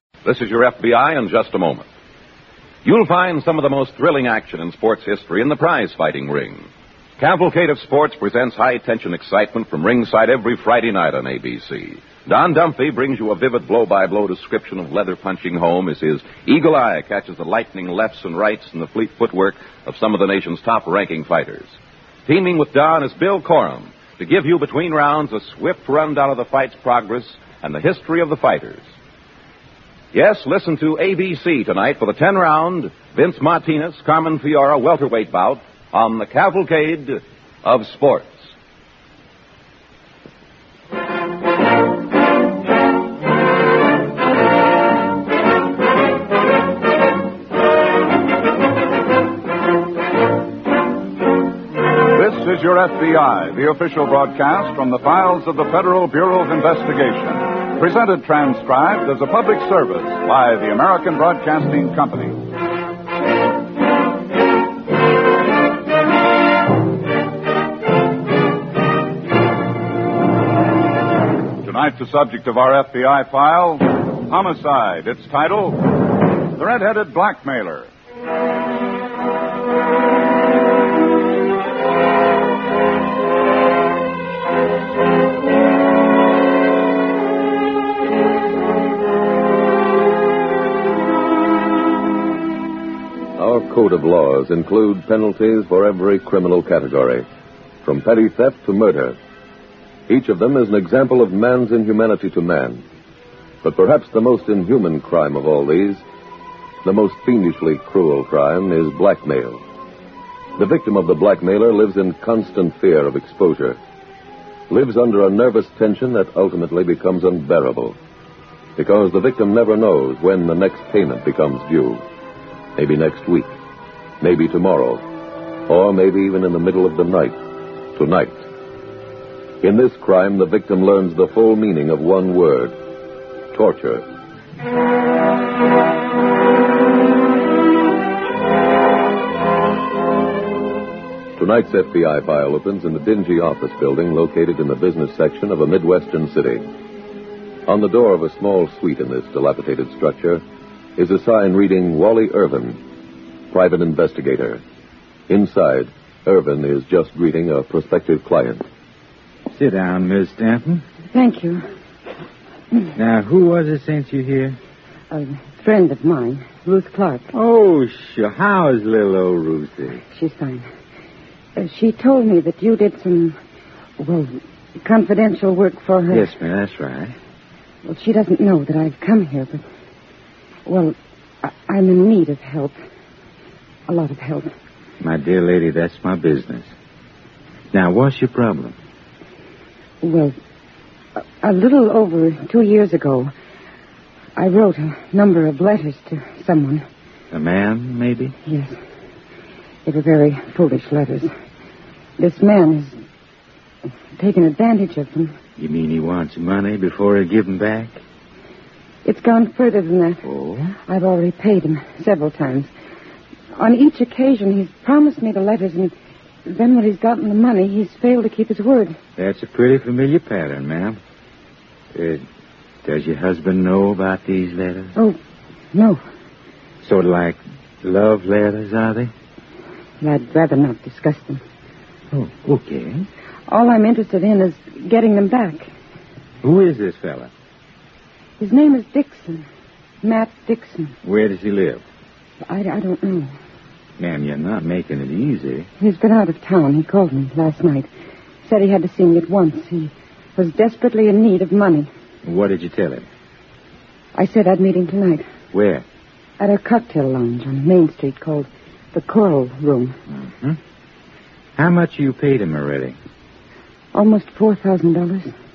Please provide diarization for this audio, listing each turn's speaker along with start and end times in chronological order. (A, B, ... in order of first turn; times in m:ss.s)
0:00.2-0:01.9 A
0:02.8-0:06.7 A
0:07.2-0:28.9 A
0:30.1-0:38.5 A
0:52.1-1:02.4 B
1:11.6-1:16.0 B
1:16.5-1:17.9 B
1:33.4-1:37.3 C
1:37.8-1:39.2 C
1:40.1-1:42.8 C
1:43.6-1:46.0 C
1:46.8-1:49.6 C
1:50.6-1:53.8 C
1:54.7-1:58.0 C
1:58.8-2:02.0 C
2:02.8-2:03.6 C
2:04.2-2:05.0 C
2:05.7-2:07.4 C
2:08.0-2:08.4 C
2:09.6-2:12.8 C
2:13.5-2:14.0 C
2:21.4-2:26.6 C
2:27.7-2:30.4 C
2:31.0-2:32.8 C
2:33.5-2:34.6 C
2:35.3-2:38.6 C
2:39.5-2:40.8 D
2:41.1-2:41.6 E
2:43.0-2:44.6 D
2:45.1-2:47.3 E
2:47.3-2:50.0 D
2:50.1-2:50.7 E
2:51.6-2:53.4 E
2:54.0-2:56.3 E
2:56.1-2:57.2 D
2:57.8-2:59.6 E
3:00.7-3:02.8 E
3:03.9-3:04.5 E
3:05.0-3:06.7 D
3:07.7-3:08.8 D
3:10.0-3:10.4 E
3:11.2-3:13.3 E
3:14.4-3:16.9 E
3:17.3-3:18.4 D
3:18.5-3:18.8 E
3:19.9-3:21.3 E
3:22.2-3:23.0 E
3:24.2-3:25.4 E
3:25.6-3:28.0 D
3:29.0-3:30.2 E
3:30.2-3:30.8 D
3:30.9-3:32.7 E
3:33.6-3:35.9 E
3:36.4-3:39.0 E
3:39.2-3:41.0 D
3:41.9-3:42.2 D
3:42.8-3:45.0 D
3:45.7-3:46.0 E
3:46.8-3:49.1 D
3:50.0-3:51.4 E
3:52.1-3:53.1 D
3:53.5-3:55.7 E
3:56.4-3:57.3 D
3:58.4-3:59.5 E
4:00.0-4:01.0 E
4:01.0-4:01.8 D
4:02.4-4:03.3 E
4:04.0-4:05.7 D
4:05.8-4:07.9 E
4:08.4-4:11.9 E
4:12.2-4:13.1 D
4:14.2-4:15.3 E
4:15.5-4:15.8 D
4:16.4-4:20.0 E
4:20.1-4:20.6 D
4:21.6-4:23.0 D
4:23.9-4:25.4 E